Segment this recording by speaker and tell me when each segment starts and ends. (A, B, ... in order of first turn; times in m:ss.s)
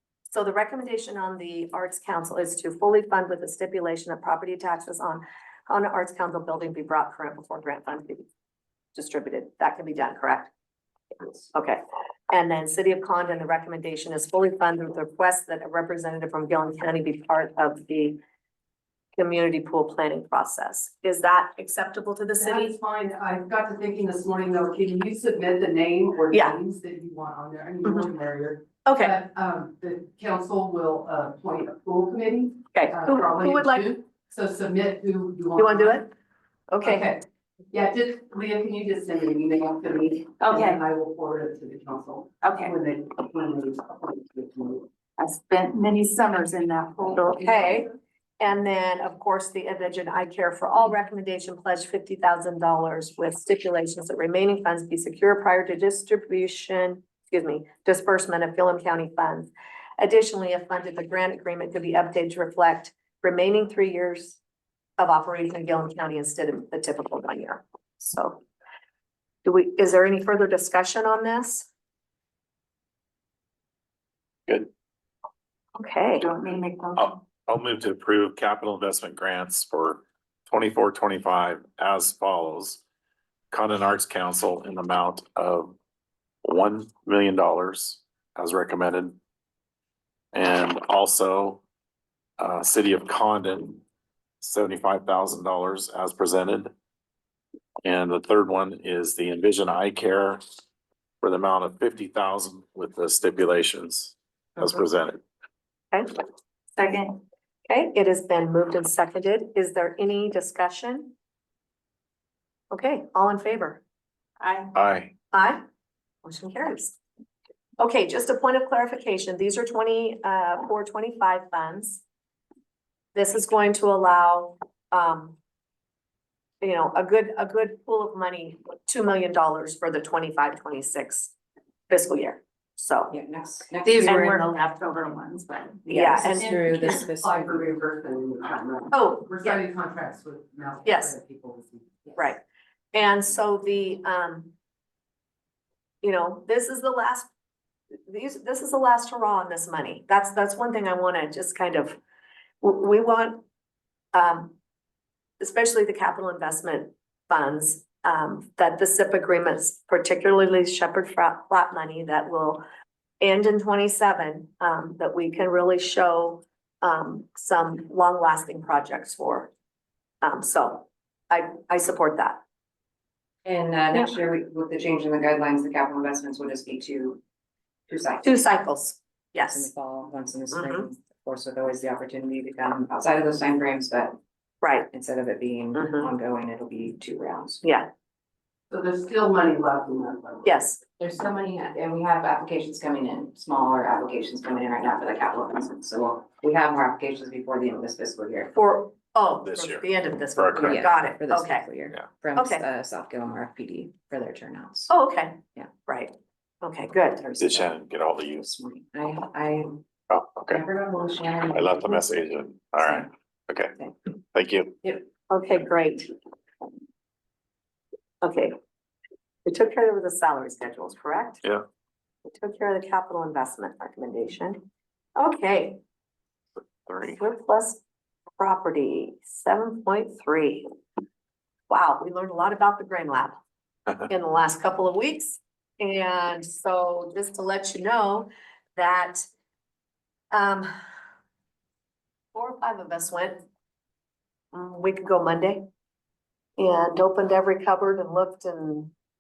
0:00.3-0:08.3 A
0:09.0-0:10.5 A
0:11.5-0:18.2 A
0:19.2-0:22.7 A
0:22.4-0:36.0 B
0:28.8-0:29.2 A
0:32.7-0:33.9 A
0:35.6-0:36.1 A
0:36.7-0:37.1 A
0:36.8-0:44.9 B
0:40.4-0:40.8 C
0:42.4-0:42.8 C
0:45.2-0:47.8 C
0:47.2-1:04.4 A
1:05.0-1:08.4 A
1:09.4-1:11.7 A
1:15.8-1:16.3 A
1:16.2-1:17.1 C
1:17.0-1:22.8 D
1:23.5-1:25.8 D
1:26.4-1:29.2 D
1:30.3-1:31.6 D
1:32.4-1:33.8 D
1:34.4-1:36.7 D
1:37.8-1:40.4 D
1:41.2-1:45.2 D
1:46.8-1:47.2 C
1:47.7-1:51.1 A
1:52.7-1:53.8 A
1:54.4-1:54.7 C
1:54.7-1:55.1 D
1:55.3-1:55.6 A
1:56.2-1:57.0 A
1:57.8-2:02.0 A
2:03.1-2:05.4 A
2:06.6-2:11.3 A
2:11.9-2:13.2 A
2:13.1-2:14.1 E
2:13.8-2:16.5 C
2:15.9-2:16.5 A
2:15.9-2:17.6 E
2:16.4-2:22.3 B
2:18.9-2:19.6 A
2:20.8-2:21.2 A
2:22.2-2:22.4 A
2:22.9-2:24.5 A
2:26.0-2:27.3 A
2:28.1-2:32.0 A
2:32.6-2:33.4 A
2:34.1-2:34.6 A
2:35.4-2:42.6 A
2:43.2-2:49.5 A
2:50.2-2:52.4 A
2:53.4-2:57.2 E
2:57.9-2:58.5 E
2:58.2-2:59.7 A
2:59.5-3:04.2 E
3:00.5-3:00.9 A
3:04.6-3:04.9 A
3:04.9-3:07.6 E
3:05.8-3:06.1 A
3:07.6-3:07.9 A
3:08.7-3:10.5 B
3:10.4-3:10.8 A
3:11.0-3:18.5 E
3:18.5-3:21.6 A
3:19.4-3:20.9 D
3:20.6-3:24.9 E
3:22.4-3:22.6 A
3:24.9-3:27.2 A
3:27.2-3:29.8 E
3:27.4-3:28.5 D
3:30.1-3:30.6 D
3:30.5-3:32.1 E
3:31.5-3:33.7 D
3:32.8-3:33.1 E
3:34.3-3:34.8 D
3:35.3-3:36.1 A
3:38.2-3:38.5 A
3:39.4-3:41.4 A
3:42.3-3:44.7 A
3:45.2-3:45.8 A
3:46.9-3:47.2 D
3:47.0-3:47.8 A
3:48.4-3:50.7 A
3:51.7-3:53.4 A
3:54.1-3:59.2 A
4:00.3-4:00.7 A
4:02.3-4:03.4 A
4:04.5-4:05.7 A
4:06.6-4:08.9 A